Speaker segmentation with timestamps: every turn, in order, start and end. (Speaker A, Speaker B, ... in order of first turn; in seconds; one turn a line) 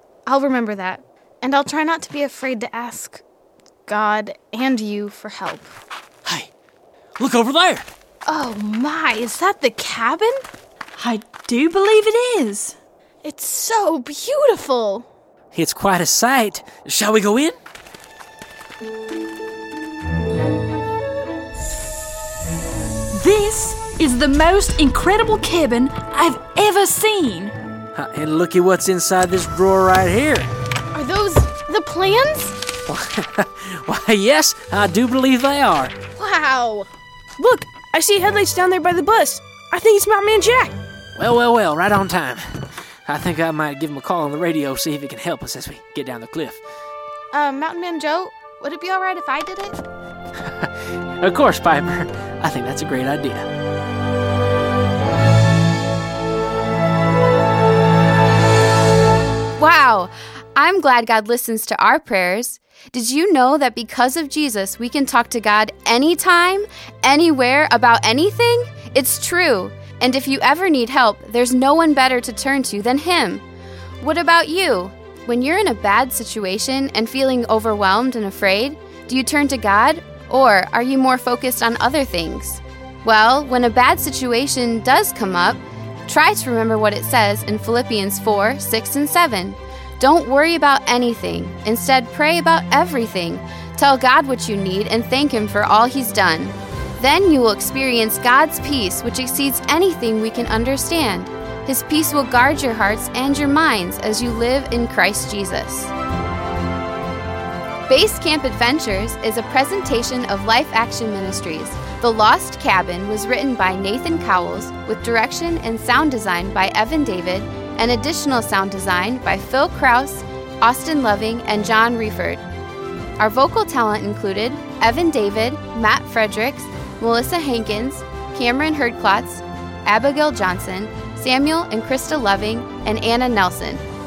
Speaker A: 0.2-3.2
Speaker A: 3.9-5.7
Speaker B: 7.2-7.9
Speaker A: 8.2-10.4
Speaker C: 11.0-12.8
Speaker A: 13.2-15.1
Speaker B: 15.5-17.6
Speaker C: 23.1-27.5
Speaker B: 27.9-30.5
Speaker A: 30.9-32.6
Speaker B: 32.9-35.9
Speaker A: 36.1-36.9
Speaker D: 37.4-40.7
Speaker B: 41.1-46.6
Speaker A: 47.3-49.8
Speaker B: 51.2-53.5
Speaker E: 59.6-73.4
Speaker E: 74.0-105.9
Speaker E: 107.9-122.4
Speaker E: 123.2-133.8